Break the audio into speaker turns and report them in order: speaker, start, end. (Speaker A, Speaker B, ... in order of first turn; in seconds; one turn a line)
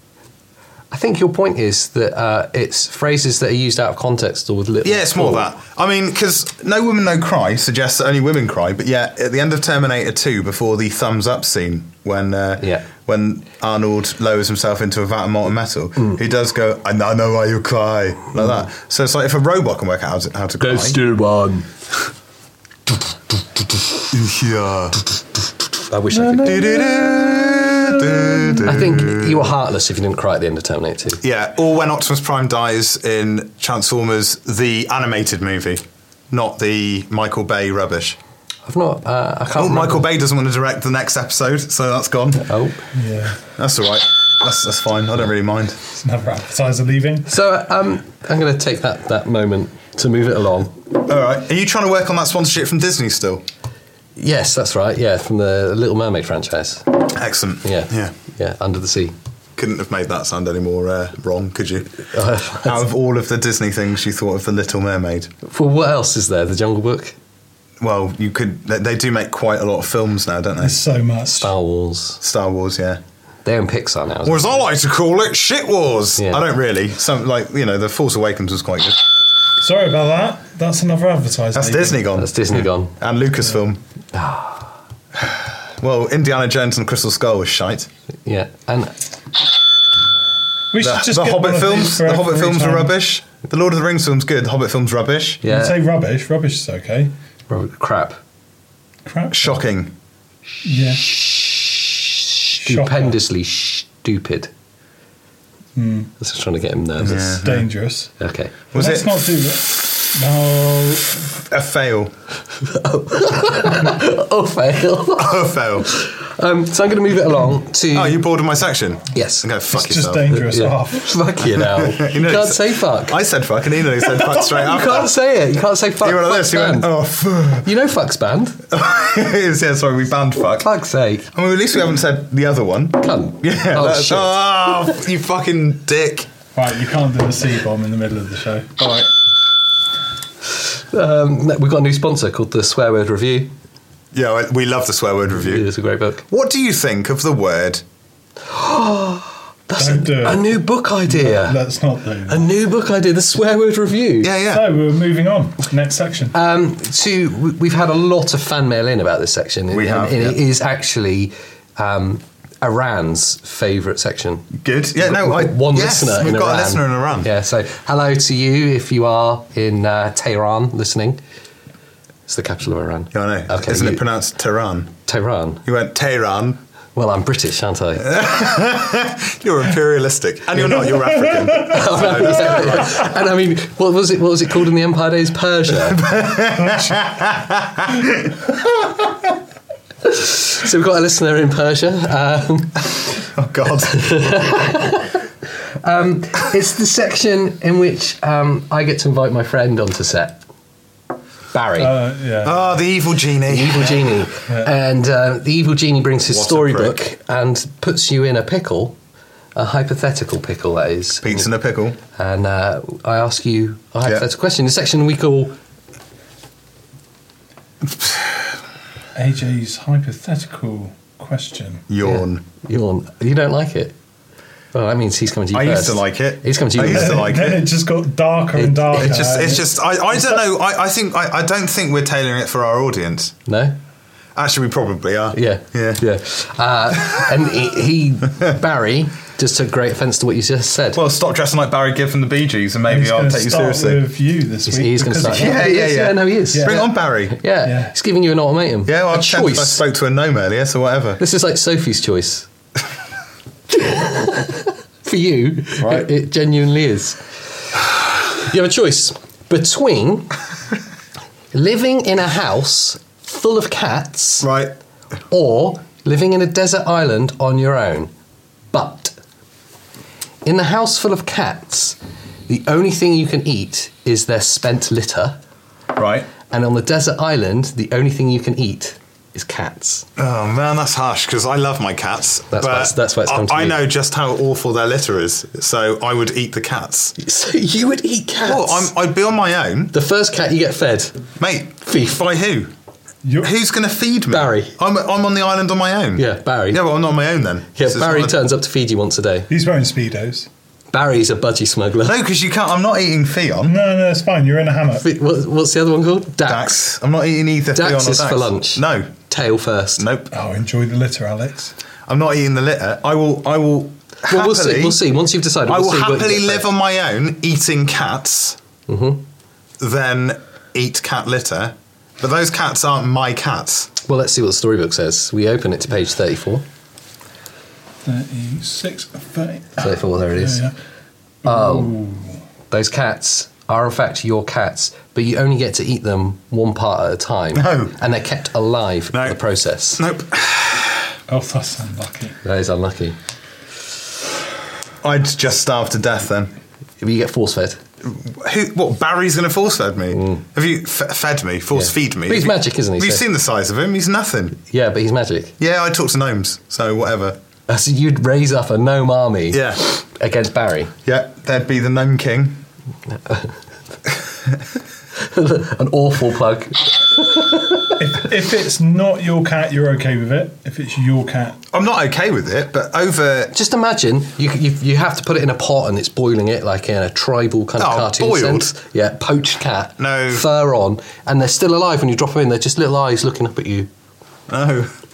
Speaker A: 0.9-5.5
Speaker B: 4.8-21.0
Speaker A: 12.6-12.8
Speaker A: 20.6-21.7
Speaker B: 24.1-25.0
Speaker A: 25.9-26.7
Speaker C: 26.1-28.5
Speaker B: 26.4-29.5
Speaker A: 28.6-31.2
Speaker B: 31.2-38.2
Speaker A: 38.6-40.1
Speaker B: 39.5-42.5
Speaker A: 42.5-42.8
Speaker C: 42.9-43.4
Speaker B: 43.5-45.8
Speaker C: 45.9-47.3
Speaker A: 47.3-50.8
Speaker B: 51.0-53.4
Speaker A: 54.1-56.9
Speaker B: 57.1-58.1
Speaker A: 57.6-59.1
Speaker B: 59.6-61.9
Speaker A: 62.0-62.8
Speaker B: 62.6-65.3
Speaker A: 65.4-67.1
Speaker B: 67.8-70.8
Speaker C: 70.6-71.5
Speaker A: 71.3-72.2
Speaker B: 72.2-73.0
Speaker A: 73.4-74.6
Speaker B: 74.2-79.0
Speaker A: 76.2-76.4
Speaker C: 79.6-82.1
Speaker B: 81.5-83.8
Speaker A: 82.1-82.9
Speaker A: 84.1-84.7
Speaker B: 85.2-87.9
Speaker A: 88.2-89.0
Speaker C: 90.7-92.9
Speaker B: 90.8-95.4
Speaker A: 95.4-95.8
Speaker C: 95.4-97.1
Speaker A: 97.5-98.2
Speaker C: 99.0-99.5
Speaker B: 99.3-99.9
Speaker C: 100.6-101.2
Speaker A: 101.1-104.5
Speaker C: 102.6-103.2
Speaker C: 105.8-106.1
Speaker A: 106.2-107.4
Speaker B: 107.0-107.7
Speaker C: 107.4-108.1
Speaker A: 108.2-108.5
Speaker B: 108.7-109.2
Speaker C: 108.7-111.2
Speaker B: 111.3-112.1
Speaker A: 112.6-118.2
Speaker B: 115.2-115.9
Speaker B: 117.9-120.3
Speaker A: 119.1-119.5
Speaker C: 119.7-121.2
Speaker A: 120.3-123.2
Speaker B: 121.6-125.1
Speaker A: 124.3-126.9
Speaker B: 126.0-127.7
Speaker A: 127.6-128.6
Speaker B: 128.7-130.7
Speaker A: 130.6-131.3
Speaker B: 131.3-136.3
Speaker A: 133.0-134.4
Speaker C: 136.5-138.7
Speaker B: 138.8-139.1
Speaker A: 140.6-143.5
Speaker B: 144.1-145.7
Speaker A: 145.3-146.2
Speaker B: 146.3-147.8
Speaker A: 148.5-151.6
Speaker C: 149.8-152.5
Speaker A: 152.3-154.3
Speaker B: 154.2-154.7
Speaker C: 154.5-156.3
Speaker A: 156.3-171.2
Speaker B: 159.7-160.4
Speaker B: 164.6-167.3
Speaker A: 172.3-174.0
Speaker B: 173.1-174.9
Speaker A: 175.1-175.6
Speaker B: 175.6-176.6
Speaker A: 176.9-178.2
Speaker B: 178.0-183.1
Speaker A: 181.6-186.1
Speaker B: 185.8-188.8
Speaker A: 190.0-192.9
Speaker B: 193.3-194.0
Speaker A: 193.9-195.2
Speaker A: 195.8-200.4
Speaker A: 201.5-201.9
Speaker C: 201.8-202.8
Speaker B: 202.4-204.1
Speaker A: 203.5-209.0
Speaker C: 204.5-204.7
Speaker B: 206.3-207.0
Speaker A: 209.5-211.5
Speaker B: 211.2-212.0
Speaker A: 212.2-215.6
Speaker B: 217.8-218.5
Speaker C: 219.1-221.9
Speaker B: 221.9-222.4
Speaker A: 222.0-223.9
Speaker A: 224.7-227.3
Speaker B: 225.5-227.6
Speaker C: 226.8-229.7
Speaker A: 228.5-229.3
Speaker B: 229.0-233.3
Speaker A: 233.5-233.8
Speaker B: 234.3-236.0
Speaker A: 235.3-241.0
Speaker B: 240.9-244.0
Speaker C: 242.9-245.8
Speaker A: 244.7-249.8
Speaker B: 245.2-247.4
Speaker C: 246.5-246.9
Speaker C: 247.6-247.9
Speaker B: 248.8-251.2
Speaker A: 251.2-252.5
Speaker A: 253.7-257.2
Speaker B: 255.8-256.1
Speaker A: 258.3-260.3
Speaker A: 261.5-264.5
Speaker B: 264.4-264.7
Speaker A: 265.3-268.1
Speaker A: 268.7-269.1
Speaker A: 270.4-272.0
Speaker A: 272.5-275.4
Speaker B: 275.9-276.3
Speaker A: 276.5-280.1
Speaker B: 280.2-287.1
Speaker A: 282.5-283.8
Speaker A: 287.2-288.9
Speaker B: 288.4-289.9
Speaker A: 289.9-291.2
Speaker B: 291.4-292.7
Speaker C: 293.2-293.5
Speaker B: 293.4-298.4
Speaker A: 294.3-294.8
Speaker A: 296.1-296.8
Speaker A: 297.8-299.5
Speaker C: 299.5-300.5
Speaker A: 300.9-302.1
Speaker B: 302.0-303.8
Speaker C: 303.6-305.0
Speaker A: 305.0-306.8
Speaker B: 306.4-309.1
Speaker A: 307.7-310.1
Speaker B: 310.0-310.3
Speaker C: 310.3-311.7
Speaker B: 312.1-315.0
Speaker A: 314.3-316.6
Speaker B: 315.6-318.6
Speaker A: 318.9-319.2
Speaker B: 319.8-323.9
Speaker A: 324.0-326.6
Speaker C: 328.0-330.7
Speaker A: 329.8-330.6
Speaker C: 331.4-332.4
Speaker A: 331.4-331.9
Speaker A: 332.7-340.0
Speaker B: 337.5-337.9
Speaker B: 339.1-339.4
Speaker B: 340.0-341.1
Speaker C: 341.3-342.4
Speaker A: 342.4-343.2
Speaker B: 345.0-346.5
Speaker A: 347.0-347.8
Speaker B: 348.0-354.6
Speaker A: 350.1-350.4
Speaker A: 351.8-353.2
Speaker A: 354.7-355.6
Speaker B: 355.6-357.4
Speaker A: 357.7-360.9
Speaker B: 359.5-359.8
Speaker B: 361.1-362.6
Speaker A: 363.2-363.5
Speaker A: 365.1-367.8
Speaker C: 368.0-371.6
Speaker B: 371.7-373.5
Speaker A: 373.5-383.9
Speaker B: 377.8-378.7
Speaker B: 380.0-380.4
Speaker B: 384.5-384.9